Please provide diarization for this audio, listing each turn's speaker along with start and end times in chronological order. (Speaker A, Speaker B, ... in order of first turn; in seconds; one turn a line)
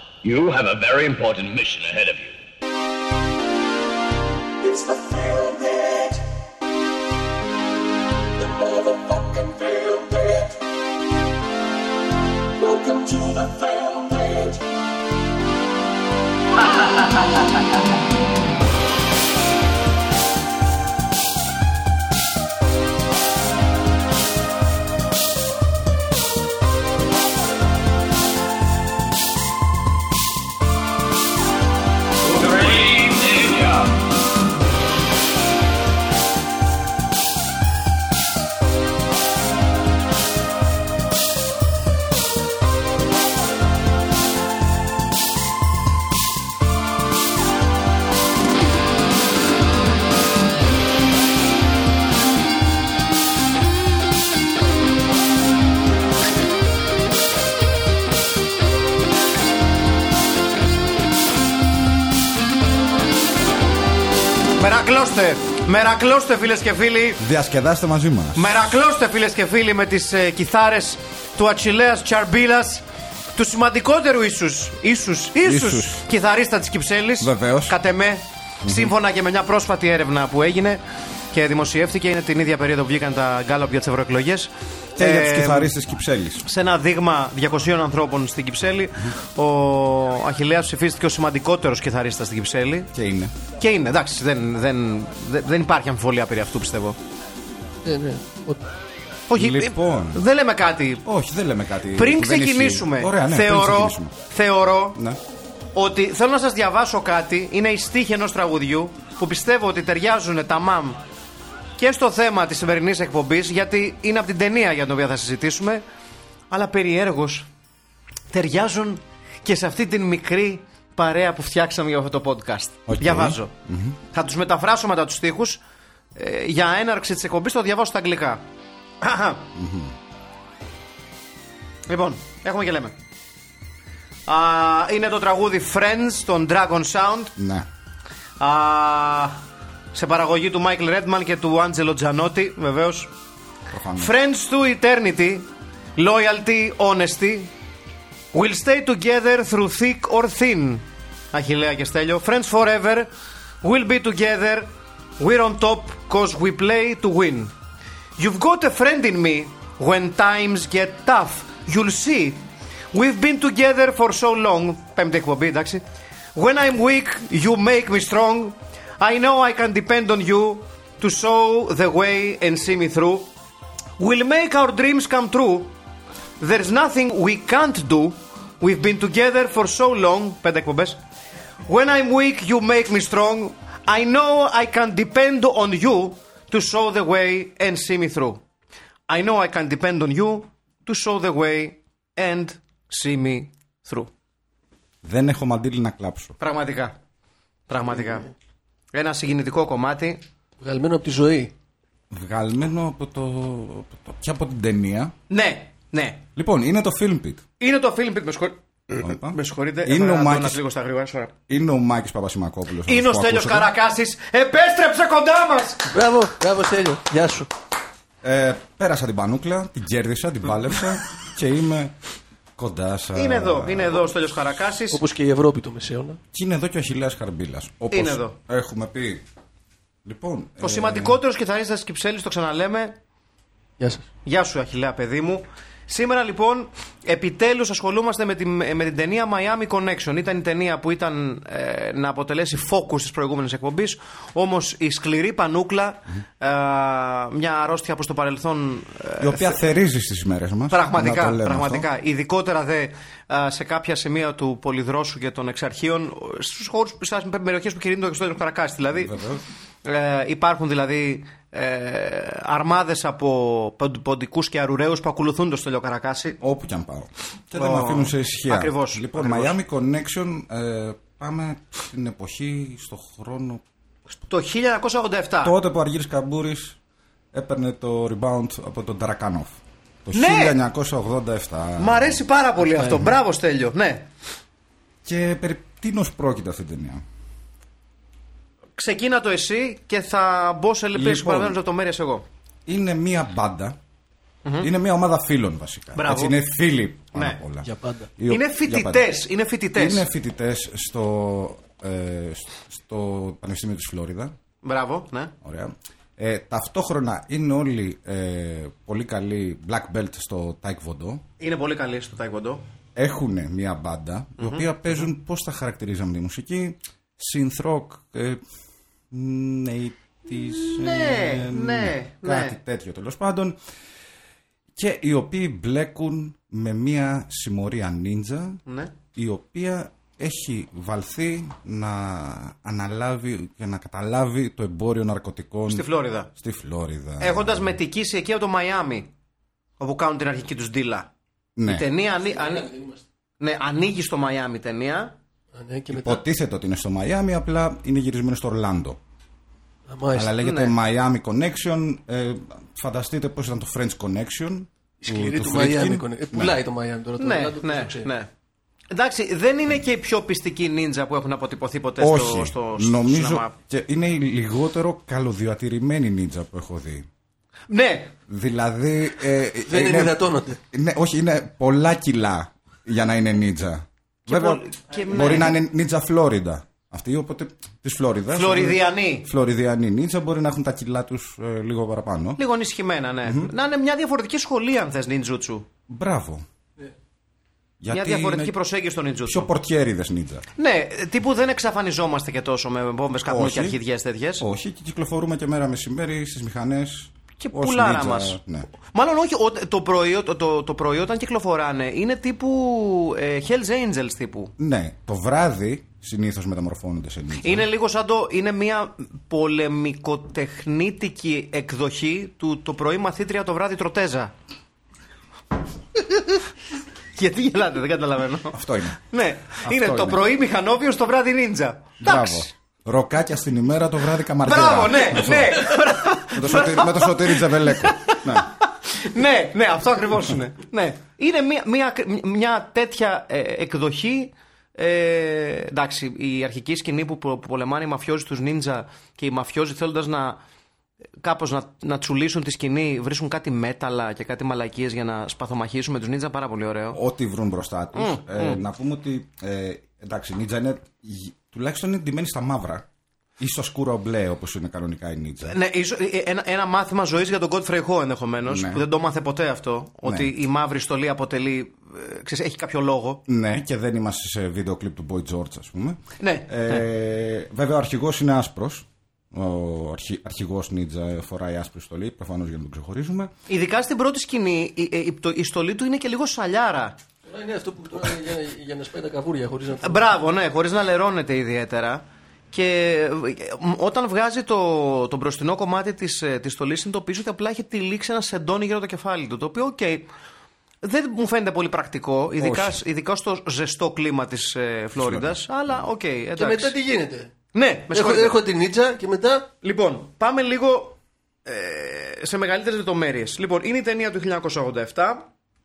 Speaker A: 0.2-2.4
Speaker B: 4.9-6.0
Speaker B: 9.1-9.6
Speaker B: 13.0-13.2
Speaker A: 32.2-34.0
Speaker C: 64.5-67.2
Speaker D: 67.2-68.5
Speaker C: 68.3-72.8
Speaker C: 73.3-80.8
Speaker D: 75.4-76.0
Speaker D: 77.2-77.8
Speaker D: 78.6-78.9
Speaker C: 81.3-85.7
Speaker D: 85.0-86.5
Speaker C: 86.4-92.9
Speaker D: 92.9-93.3
Speaker C: 93.6-97.0
Speaker E: 97.8-98.6
Speaker C: 99.3-101.0
Speaker D: 99.3-100.2
Speaker D: 101.0-104.1
Speaker C: 101.9-105.0
Speaker C: 105.7-111.0
Speaker C: 111.8-115.8
Speaker C: 116.5-117.5
Speaker C: 118.3-123.5
Speaker D: 122.9-124.0
Speaker C: 124.1-125.6
Speaker C: 126.1-128.4
Speaker C: 129.0-129.4
Speaker D: 129.5-129.9
Speaker C: 131.9-132.9
Speaker C: 134.3-137.3
Speaker D: 137.4-137.7
Speaker C: 138.4-139.4
Speaker C: 139.9-143.1
Speaker D: 143.7-144.1
Speaker C: 143.9-147.5
Speaker C: 148.3-153.1
Speaker C: 153.6-157.5
Speaker C: 158.2-162.4
Speaker C: 162.9-165.8
Speaker C: 166.3-173.3
Speaker C: 174.0-175.7
Speaker C: 176.4-181.0
Speaker C: 181.7-188.4
Speaker C: 189.1-194.1
Speaker D: 195.0-196.3
Speaker C: 196.4-197.0
Speaker C: 197.7-198.3
Speaker C: 198.9-200.2
Speaker E: 200.6-201.5
Speaker D: 202.1-205.1
Speaker C: 205.3-206.2
Speaker D: 206.3-207.4
Speaker C: 207.6-211.3
Speaker D: 208.9-210.6
Speaker D: 211.5-213.7
Speaker C: 212.8-215.9
Speaker E: 215.9-217.5
Speaker D: 218.2-221.9
Speaker D: 222.6-224.1
Speaker C: 223.1-225.0
Speaker E: 224.9-226.2
Speaker D: 226.3-229.2
Speaker C: 227.9-228.3
Speaker D: 230.0-231.2
Speaker C: 230.6-233.0
Speaker E: 233.8-234.1
Speaker C: 234.2-249.6
Speaker D: 249.2-251.8
Speaker C: 250.7-259.1
Speaker D: 258.9-259.4
Speaker C: 259.8-266.4
Speaker D: 266.4-273.6
Speaker C: 267.5-269.6
Speaker C: 274.3-275.5
Speaker D: 275.4-276.8
Speaker D: 277.3-282.2
Speaker C: 280.1-280.6
Speaker C: 281.8-284.1
Speaker E: 282.8-283.0
Speaker D: 285.0-287.0
Speaker C: 288.8-292.2
Speaker D: 290.9-291.6
Speaker D: 292.6-293.8
Speaker D: 294.6-299.1
Speaker C: 295.9-296.4
Speaker C: 297.1-297.4
Speaker E: 297.6-298.1
Speaker C: 298.3-300.1
Speaker D: 299.7-304.3
Speaker C: 304.6-305.3
Speaker D: 305.4-311.2
Speaker C: 311.4-312.6
Speaker D: 312.9-318.4
Speaker C: 314.4-315.0
Speaker D: 319.1-323.6
Speaker C: 320.3-322.6
Speaker D: 324.8-328.6
Speaker C: 328.7-328.9
Speaker D: 329.1-337.8
Speaker C: 335.7-336.3
Speaker C: 337.2-339.1
Speaker C: 339.8-341.1
Speaker D: 341.6-341.9
Speaker C: 341.6-342.7
Speaker E: 342.2-343.0
Speaker C: 343.4-345.1
Speaker E: 345.5-346.2
Speaker D: 345.9-349.0
Speaker E: 349.9-350.4
Speaker D: 350.1-356.6
Speaker C: 350.4-350.7
Speaker E: 355.0-358.1
Speaker C: 357.2-358.3
Speaker C: 358.9-363.5
Speaker D: 362.0-367.1
Speaker C: 367.7-368.1
Speaker D: 368.3-382.4
Speaker E: 369.6-370.6
Speaker C: 374.2-375.6
Speaker C: 378.3-379.3
Speaker C: 382.4-385.7
Speaker D: 383.2-383.5
Speaker D: 385.9-386.4
Speaker D: 387.8-388.5
Speaker C: 387.9-389.5
Speaker D: 389.2-390.4
Speaker C: 390.6-394.4
Speaker D: 393.3-393.8
Speaker D: 394.4-398.7
Speaker C: 397.4-404.5
Speaker D: 404.6-407.7
Speaker C: 407.4-414.3
Speaker C: 416.0-416.4
Speaker C: 417.1-422.5
Speaker D: 418.5-420.2
Speaker D: 422.0-425.8
Speaker C: 424.4-440.4
Speaker D: 426.3-428.5
Speaker C: 441.2-447.0
Speaker D: 446.9-452.9
Speaker C: 447.9-448.6
Speaker D: 453.4-455.5
Speaker C: 455.4-463.2
Speaker D: 458.4-458.8
Speaker D: 460.0-460.3
Speaker D: 463.3-473.3
Speaker C: 466.2-466.9
Speaker C: 473.5-477.0
Speaker E: 477.2-480.1
Speaker C: 479.8-490.1
Speaker C: 490.8-496.7
Speaker D: 492.4-492.8
Speaker D: 495.0-495.4
Speaker E: 496.4-497.3
Speaker C: 497.5-498.4
Speaker E: 497.9-499.5
Speaker C: 499.6-505.2